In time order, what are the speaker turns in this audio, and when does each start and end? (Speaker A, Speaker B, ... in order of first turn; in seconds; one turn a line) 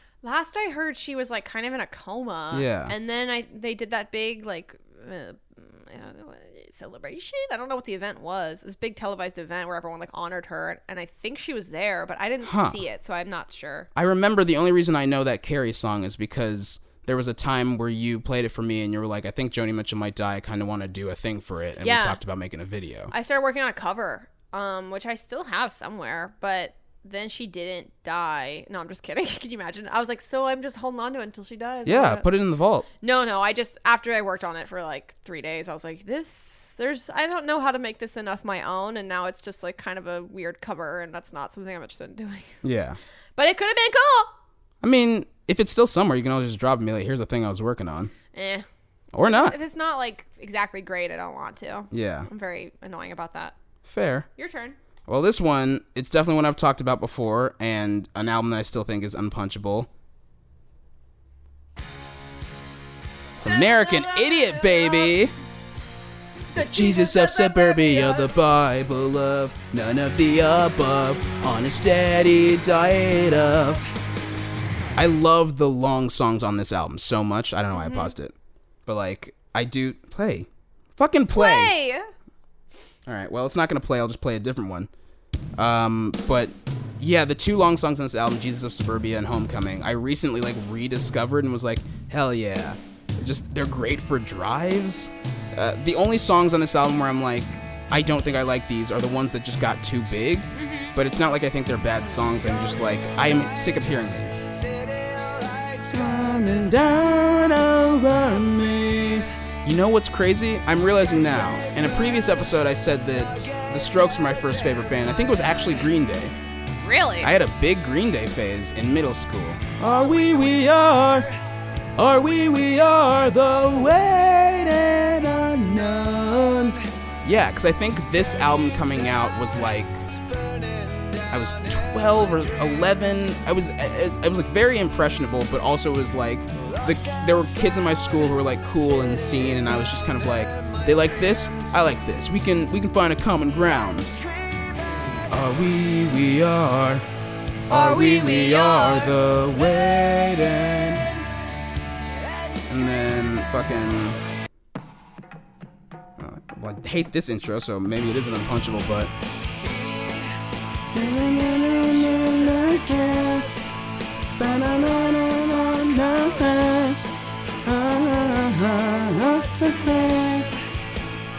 Speaker A: 0.2-13.9
Speaker B: 2.5-2.9
Speaker B: 12.4-12.8
Speaker B: 13.9-23.1
Speaker A: 21.8-22.2
Speaker A: 23.1-32.3
Speaker B: 31.9-32.9
Speaker A: 33.0-42.6
Speaker B: 42.6-43.0
Speaker A: 43.4-44.3
Speaker B: 44.8-48.1
Speaker A: 48.3-53.6
Speaker B: 49.1-49.6
Speaker B: 51.9-52.3
Speaker B: 53.8-54.3
Speaker A: 54.4-54.8
Speaker B: 55.1-59.9
Speaker B: 63.4-65.3
Speaker A: 66.5-68.3
Speaker B: 66.5-73.8
Speaker B: 75.0-78.3
Speaker A: 77.7-78.1
Speaker B: 78.9-81.8
Speaker A: 81.3-82.1
Speaker B: 83.1-84.9
Speaker B: 85.6-104.4
Speaker A: 100.5-101.0
Speaker B: 105.9-116.3
Speaker A: 116.8-117.3
Speaker B: 117.2-121.3
Speaker B: 122.0-130.1
Speaker B: 131.3-144.2
Speaker B: 145.3-147.1
Speaker B: 147.7-151.2
Speaker A: 147.7-149.2
Speaker B: 152.7-154.2
Speaker B: 156.2-159.1
Speaker B: 160.9-163.7
Speaker B: 164.3-167.0
Speaker B: 167.7-170.5